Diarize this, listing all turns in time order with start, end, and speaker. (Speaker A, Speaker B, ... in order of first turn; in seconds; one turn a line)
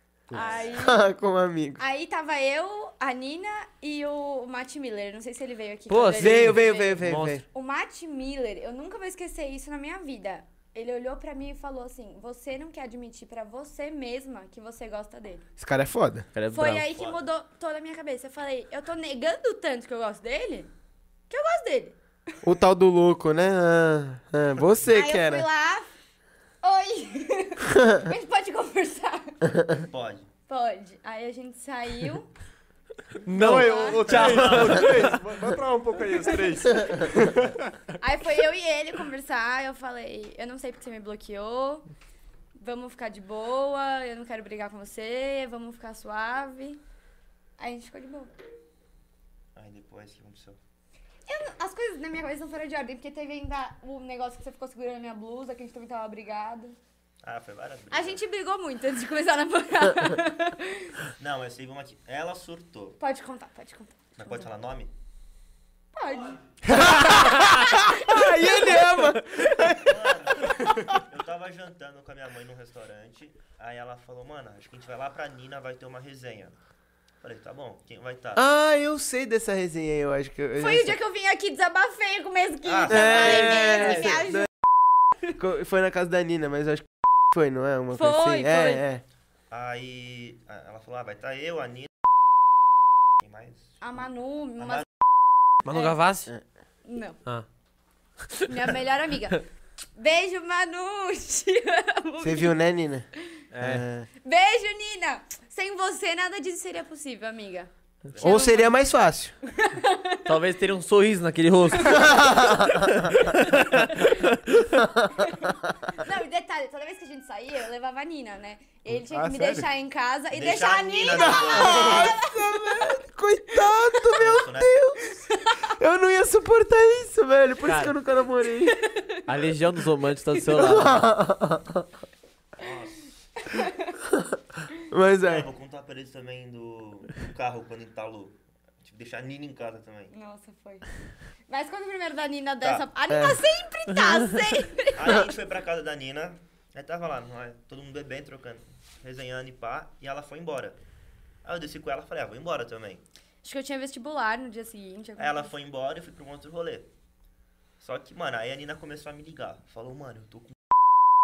Speaker A: 0.3-0.6
Speaker B: 0.3-1.0
Speaker C: 0.3-0.8
Speaker D: 0.6-1.8
Speaker B: 1.8-15.4
Speaker E: 5.9-7.4
Speaker D: 6.1-7.4
Speaker D: 15.6-16.3
Speaker E: 16.3-16.9
Speaker B: 16.5-20.7
Speaker B: 21.3-22.0
Speaker D: 22.4-25.4
Speaker B: 24.9-25.9
Speaker B: 26.6-29.4
Speaker C: 29.8-30.3
Speaker B: 30.5-32.3
Speaker A: 33.2-37.8
Speaker E: 33.2-35.2
Speaker B: 33.4-34.2
Speaker C: 34.1-35.1
Speaker B: 38.0-41.8
Speaker B: 42.6-46.8
Speaker B: 47.6-48.3
Speaker C: 49.5-50.6
Speaker B: 51.3-56.8
Speaker C: 57.2-58.2
Speaker B: 57.9-61.0
Speaker C: 61.2-63.0
Speaker B: 63.0-64.5
Speaker C: 64.2-64.9
Speaker B: 65.9-69.0
Speaker D: 66.7-69.8
Speaker C: 69.8-76.5
Speaker C: 77.2-78.4
Speaker D: 78.3-81.0
Speaker B: 80.5-84.5
Speaker C: 82.6-83.9
Speaker D: 82.9-84.5
Speaker E: 83.6-84.0
Speaker D: 85.3-89.0
Speaker B: 87.9-88.8
Speaker C: 89.5-91.9
Speaker C: 93.2-93.8
Speaker B: 93.8-94.8
Speaker C: 94.6-94.8
Speaker E: 95.6-96.3
Speaker B: 95.7-96.0
Speaker B: 96.8-97.2
Speaker B: 98.5-99.4
Speaker B: 100.0-102.5
Speaker D: 102.2-103.1
Speaker E: 103.5-103.8
Speaker D: 103.6-104.0
Speaker B: 104.2-108.7
Speaker C: 108.1-108.5
Speaker D: 108.2-109.3
Speaker B: 109.5-110.3
Speaker E: 110.2-114.8
Speaker B: 111.8-112.6
Speaker D: 112.0-113.1
Speaker B: 113.5-114.0
Speaker B: 115.2-122.9
Speaker A: 118.9-119.7
Speaker C: 120.3-122.1
Speaker D: 121.1-125.0
Speaker C: 124.1-124.8
Speaker B: 125.0-125.7
Speaker D: 125.7-128.8
Speaker E: 127.6-127.9
Speaker B: 128.7-129.3
Speaker E: 129.2-131.1
Speaker D: 130.5-131.8
Speaker C: 132.6-133.1
Speaker B: 133.4-133.9
Speaker D: 134.9-135.4
Speaker C: 135.2-140.1
Speaker B: 140.1-140.8
Speaker B: 141.5-145.2
Speaker D: 143.1-143.4
Speaker C: 144.9-150.8
Speaker C: 151.4-153.0
Speaker B: 153.4-155.5
Speaker C: 155.2-156.9
Speaker C: 157.8-160.6